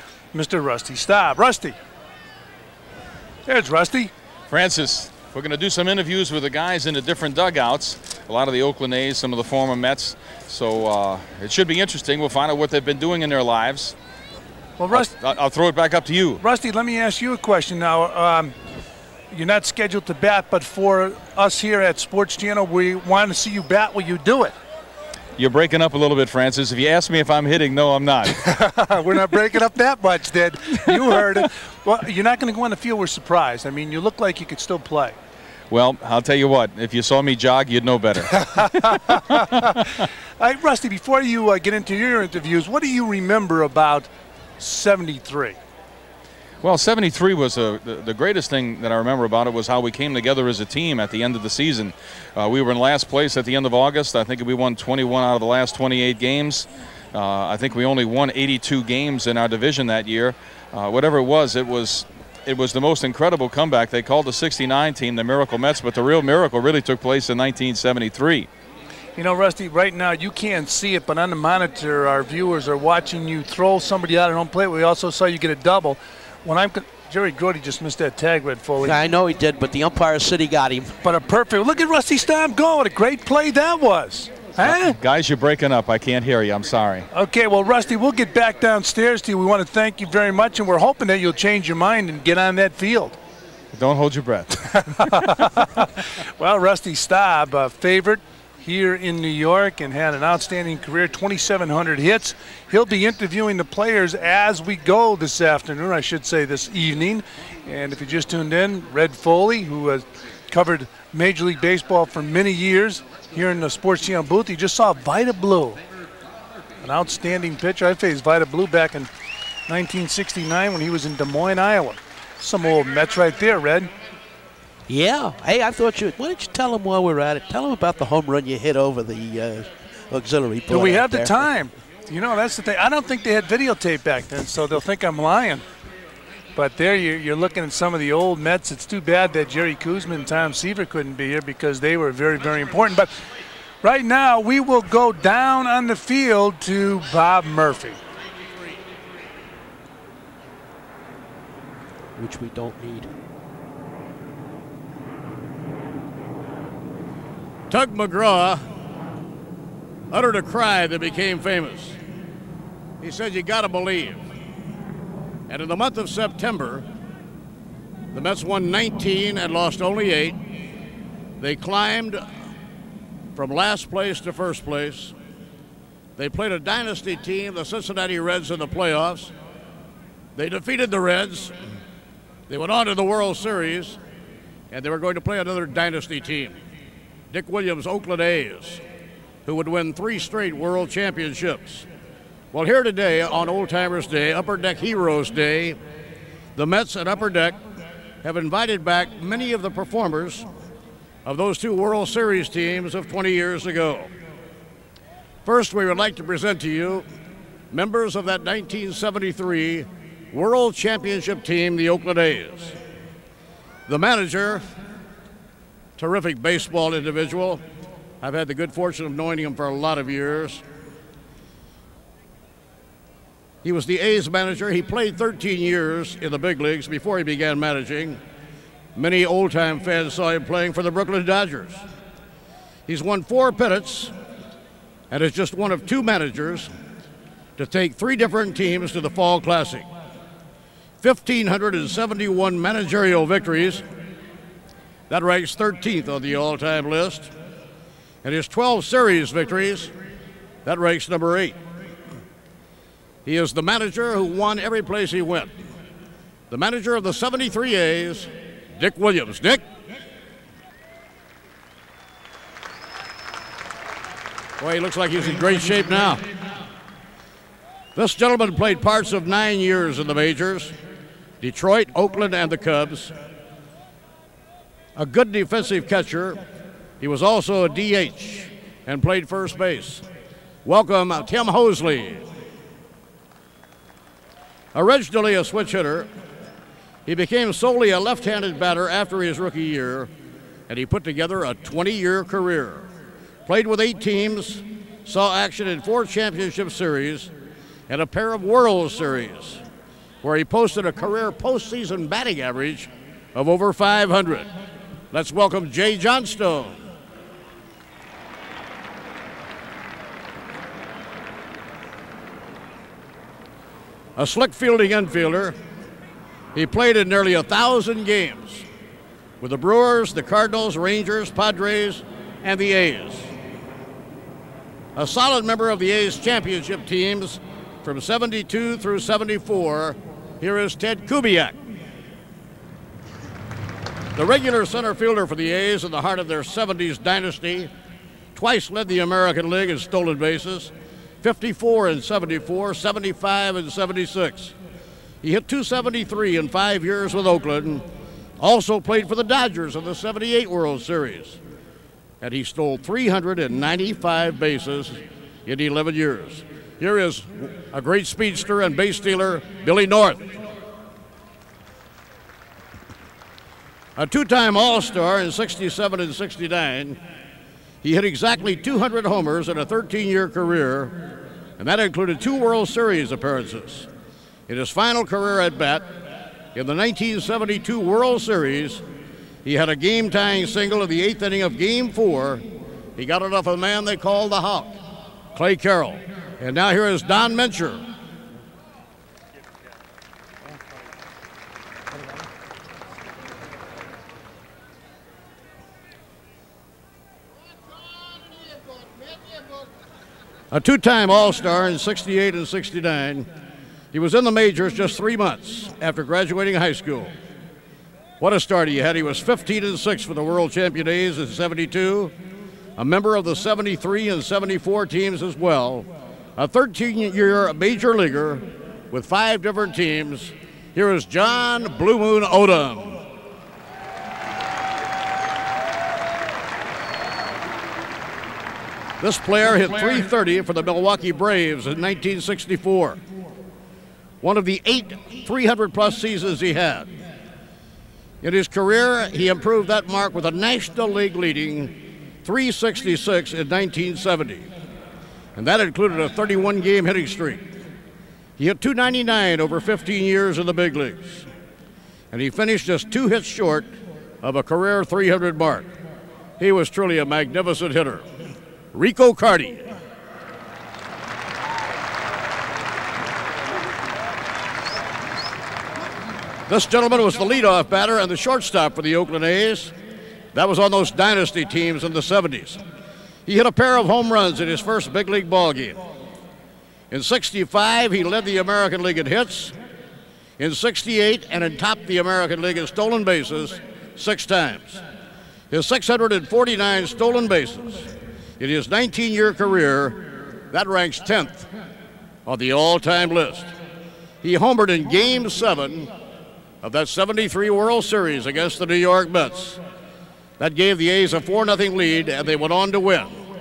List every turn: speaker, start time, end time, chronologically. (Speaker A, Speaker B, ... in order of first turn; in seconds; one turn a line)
Speaker A: 0.3-1.8
Speaker A: 3.5-4.1
Speaker B: 4.5-14.0
Speaker A: 14.8-15.1
Speaker B: 14.9-16.4
Speaker A: 16.4-18.5
Speaker A: 19.3-24.5
Speaker B: 25.4-28.4
Speaker A: 28.3-35.2
Speaker B: 35.7-40.0
Speaker A: 38.5-39.7
Speaker A: 40.4-45.6
Speaker B: 46.6-68.5
Speaker A: 69.2-79.0
Speaker C: 78.8-81.0
Speaker A: 81.0-85.0
Speaker B: 84.6-87.1
Speaker A: 87.1-93.2
Speaker B: 93.7-95.3
Speaker A: 94.9-115.8
Speaker A: 116.8-119.1
Speaker A: 119.7-123.9
Speaker C: 124.9-131.5
Speaker A: 130.7-135.6
Speaker A: 136.5-143.1
Speaker A: 143.8-148.0
Speaker C: 152.2-153.1
Speaker D: 157.7-158.6
Speaker D: 160.1-162.0
Speaker D: 163.0-164.2
Speaker D: 165.5-166.9
Speaker D: 168.1-170.4
Speaker D: 171.4-172.2
Speaker D: 173.4-175.1
Speaker D: 176.2-179.3
Speaker D: 180.4-181.5
Speaker D: 182.5-184.0
Speaker D: 184.7-186.6
Speaker D: 187.3-188.8
Speaker D: 189.5-191.9
Speaker D: 192.5-195.8
Speaker D: 196.6-197.6
Speaker D: 198.2-200.5
Speaker D: 201.2-204.1
Speaker D: 205.4-207.0
Speaker D: 207.7-212.8
Speaker D: 213.9-214.7
Speaker D: 216.0-217.6
Speaker D: 218.2-220.6
Speaker D: 223.6-228.2
Speaker D: 229.0-231.8
Speaker D: 232.9-234.1
Speaker D: 235.1-236.7
Speaker D: 237.6-239.9
Speaker D: 241.0-243.8
Speaker D: 245.1-247.3
Speaker D: 248.2-249.9
Speaker D: 250.6-251.6
Speaker D: 253.2-255.5
Speaker D: 256.5-259.6
Speaker D: 264.6-266.2
Speaker D: 268.0-270.8
Speaker D: 271.4-273.1
Speaker D: 275.0-276.4
Speaker D: 277.0-280.0
Speaker D: 280.6-282.2
Speaker D: 284.7-286.1
Speaker D: 287.1-290.1
Speaker D: 290.7-292.9
Speaker D: 293.5-297.3
Speaker D: 297.9-299.6
Speaker D: 300.2-304.5
Speaker D: 305.1-306.8
Speaker D: 314.2-315.6
Speaker D: 316.5-318.6
Speaker D: 319.4-323.3
Speaker D: 325.0-331.6
Speaker D: 334.2-337.7
Speaker D: 338.3-340.7
Speaker D: 341.2-344.5
Speaker D: 345.2-347.8
Speaker D: 348.4-351.4
Speaker D: 352.2-360.3
Speaker D: 364.0-367.0
Speaker D: 367.8-370.9
Speaker D: 371.6-373.9
Speaker D: 374.5-375.8
Speaker D: 376.5-378.8
Speaker D: 379.4-382.4
Speaker D: 383.0-384.8
Speaker D: 385.3-387.8
Speaker D: 400.5-403.3
Speaker D: 403.9-407.1
Speaker D: 408.2-412.1
Speaker D: 412.8-423.0
Speaker D: 429.0-433.0
Speaker D: 434.2-436.9
Speaker D: 438.2-444.5
Speaker D: 445.4-447.4
Speaker D: 448.4-451.3
Speaker D: 452.1-453.7
Speaker D: 454.2-455.7
Speaker D: 456.4-458.1
Speaker D: 458.7-459.7
Speaker D: 466.5-469.7
Speaker D: 470.3-472.6
Speaker D: 473.3-475.8
Speaker D: 476.9-479.5
Speaker D: 480.4-484.8
Speaker D: 485.5-487.9
Speaker D: 488.4-491.5
Speaker D: 492.2-493.5
Speaker D: 494.2-495.9
Speaker D: 496.6-499.6
Speaker D: 500.4-503.2